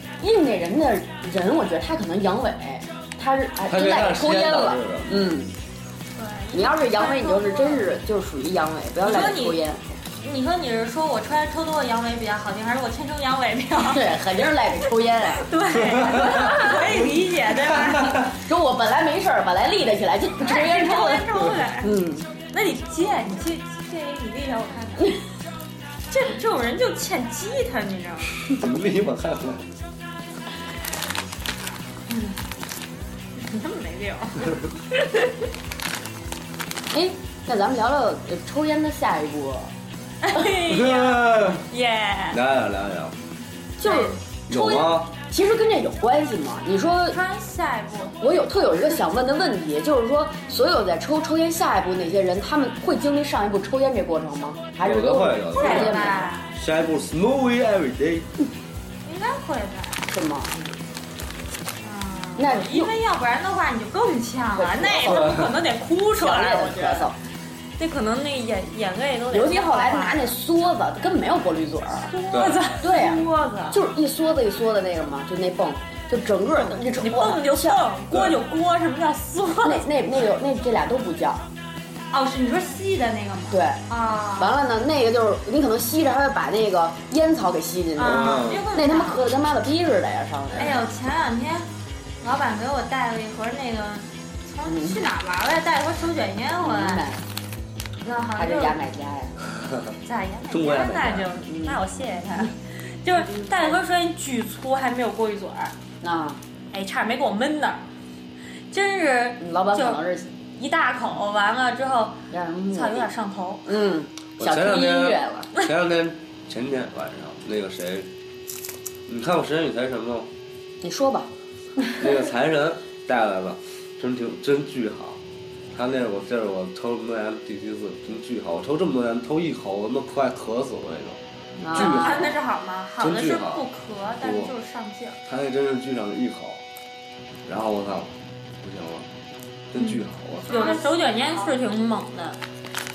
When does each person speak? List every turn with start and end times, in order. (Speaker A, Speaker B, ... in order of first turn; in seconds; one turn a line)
Speaker A: 0.2-5.5
Speaker B: 3.7-5.3
Speaker C: 6.2-7.9
Speaker A: 6.5-10.0
Speaker C: 9.0-9.6
Speaker C: 10.1-14.4
Speaker A: 13.8-15.5
Speaker C: 15.3-18.2
Speaker B: 15.9-16.6
Speaker A: 18.2-22.3
Speaker C: 20.4-21.9
Speaker C: 22.5-25.2
Speaker C: 26.1-28.4
Speaker B: 28.5-29.7
Speaker C: 32.1-32.4
Speaker C: 33.4-34.7
Speaker A: 36.9-39.7
Speaker C: 40.2-42.4
Speaker B: 40.6-41.6
Speaker B: 42.3-43.2
Speaker A: 43.8-47.2
Speaker C: 43.8-44.2
Speaker B: 44.5-45.1
Speaker C: 47.1-48.3
Speaker A: 48.2-56.3
Speaker B: 54.8-58.3
Speaker C: 55.5-56.6
Speaker C: 59.0-60.1
Speaker A: 60.1-60.7
Speaker C: 61.8-67.1
Speaker A: 62.4-62.9
Speaker A: 64.5-65.5
Speaker B: 65.0-65.5
Speaker A: 66.1-67.2
Speaker C: 67.8-70.3
Speaker A: 69.3-72.1
Speaker C: 72.0-73.8
Speaker B: 72.3-72.6
Speaker A: 72.7-77.9
Speaker C: 76.6-79.8
Speaker B: 78.1-78.4
Speaker A: 79.6-81.5
Speaker C: 82.1-84.6
Speaker A: 83.5-90.8
Speaker C: 88.0-89.3
Speaker B: 88.0-88.6
Speaker C: 90.5-91.7
Speaker C: 92.2-97.0
Speaker A: 94.6-95.0
Speaker A: 96.6-97.2
Speaker C: 98.0-98.8
Speaker A: 98.3-99.4
Speaker B: 99.6-99.9
Speaker C: 100.0-105.7
Speaker B: 100.5-101.3
Speaker A: 101.5-101.8
Speaker A: 106.0-106.4
Speaker C: 106.7-107.8
Speaker C: 108.7-110.0
Speaker A: 109.4-110.3
Speaker C: 110.5-113.7
Speaker A: 112.3-113.1
Speaker A: 113.6-115.5
Speaker B: 114.4-118.1
Speaker B: 119.1-120.3
Speaker A: 120.8-121.3
Speaker B: 122.0-125.2
Speaker B: 125.7-131.2
Speaker A: 131.6-132.4
Speaker C: 131.7-135.2
Speaker B: 131.7-132.3
Speaker B: 133.0-133.7
Speaker B: 134.2-134.5
Speaker B: 135.3-136.6
Speaker B: 137.4-139.1
Speaker B: 139.7-140.7
Speaker C: 139.8-142.4